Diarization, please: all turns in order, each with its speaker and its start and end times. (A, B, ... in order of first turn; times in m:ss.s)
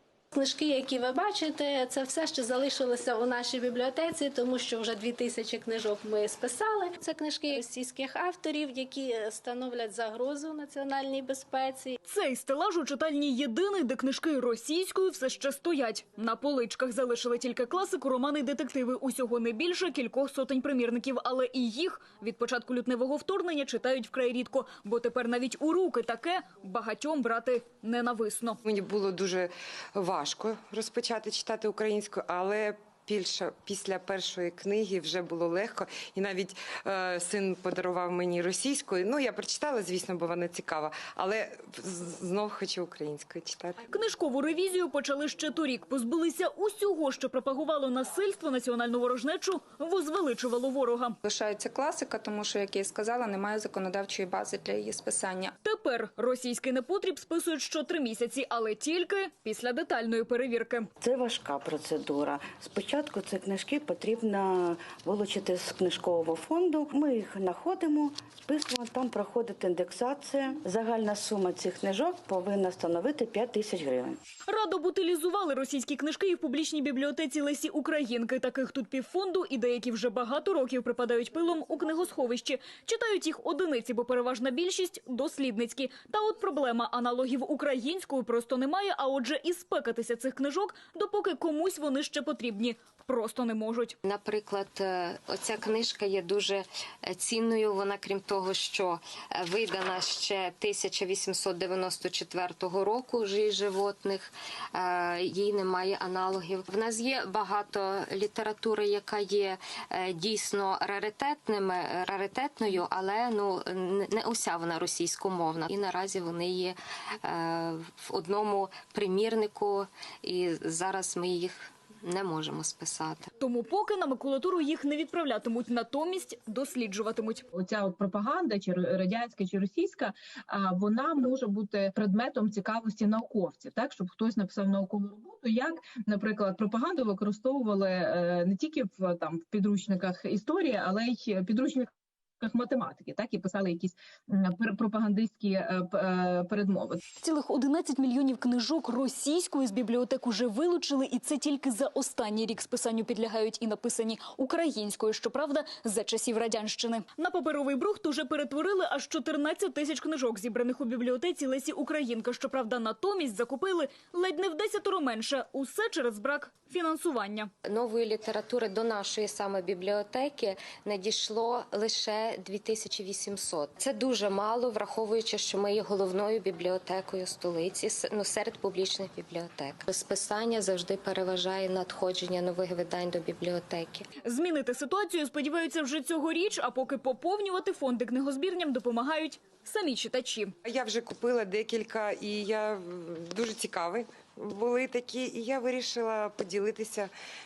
0:00.3-0:12.0 A
0:12.1-0:28.6 B
0:28.6-0:43.8 C
0:43.9-0:51.2 B
0:51.2-0:55.5 D
0:55.6-1:00.9 B
1:01.0-1:14.2 E
1:14.5-1:34.0 B
1:34.0-2:03.3 F
2:03.4-2:07.4 B
2:07.5-2:21.9 G
2:22.4-2:27.0 G
2:27.2-2:47.5 B
2:47.6-3:04.0 F
3:04.2-3:10.5 B
3:10.6-3:17.1 C